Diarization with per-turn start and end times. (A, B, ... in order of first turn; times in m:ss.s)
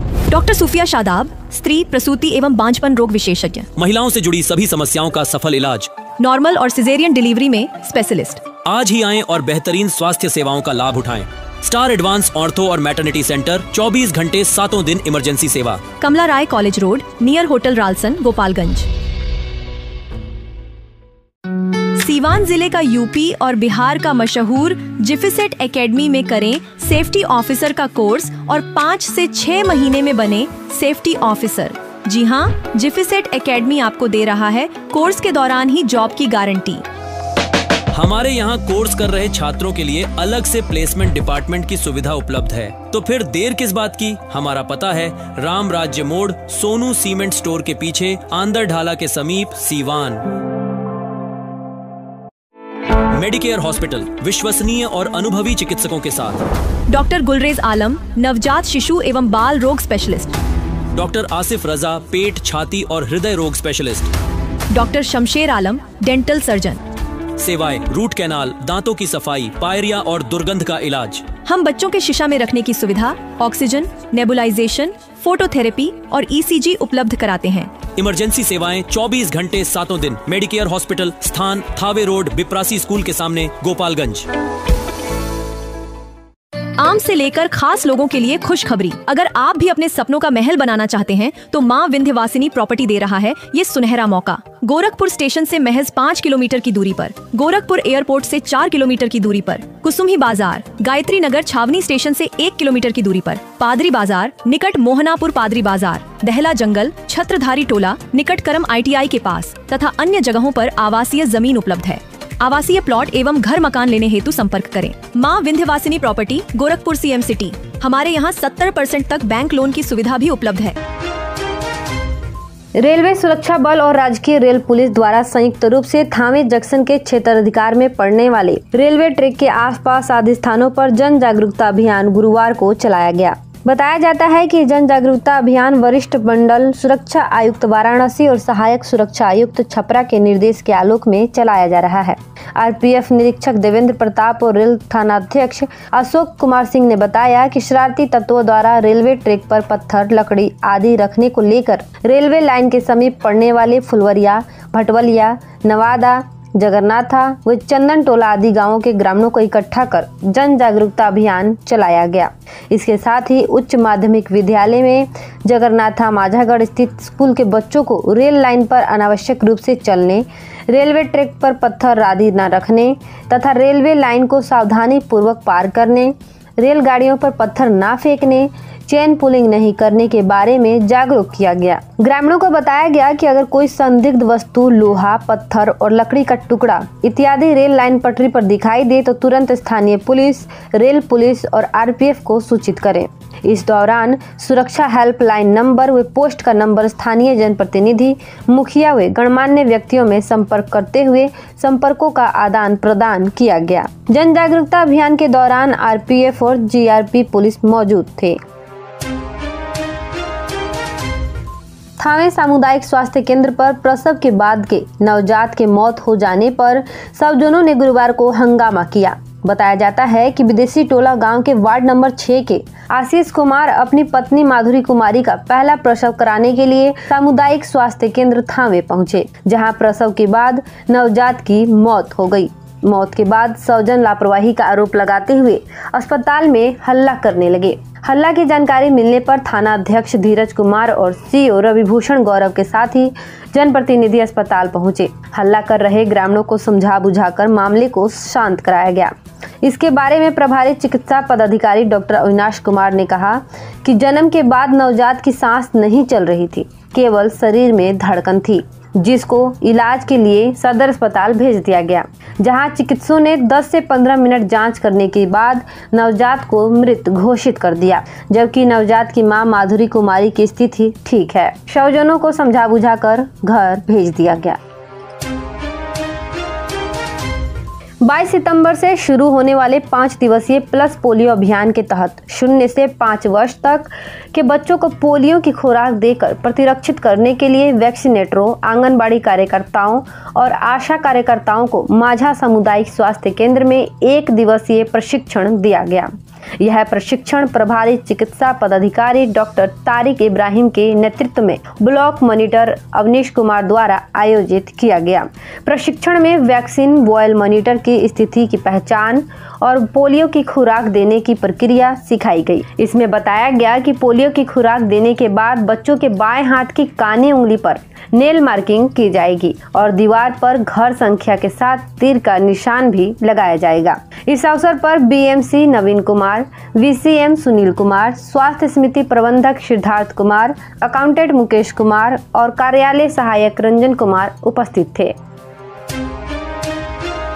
0:00.3-0:03.7 A
0:03.8-0:05.9 B
0:06.2-0:08.5 A
0:08.6-0:15.8 B
0:16.0-0:18.9 A
0:22.0-0:36.8 A
0:37.9-0:50.2 B
0:53.1-0:56.4 B
0:56.9-1:00.4 A
1:00.9-1:04.1 B
1:04.7-1:06.8 A
1:07.4-1:11.3 B
1:11.4-1:17.8 A
1:18.0-1:24.3 B
1:26.8-2:00.8 A
2:02.8-3:28.4 C
3:32.0-4:34.6 C
4:38.0-5:35.1 C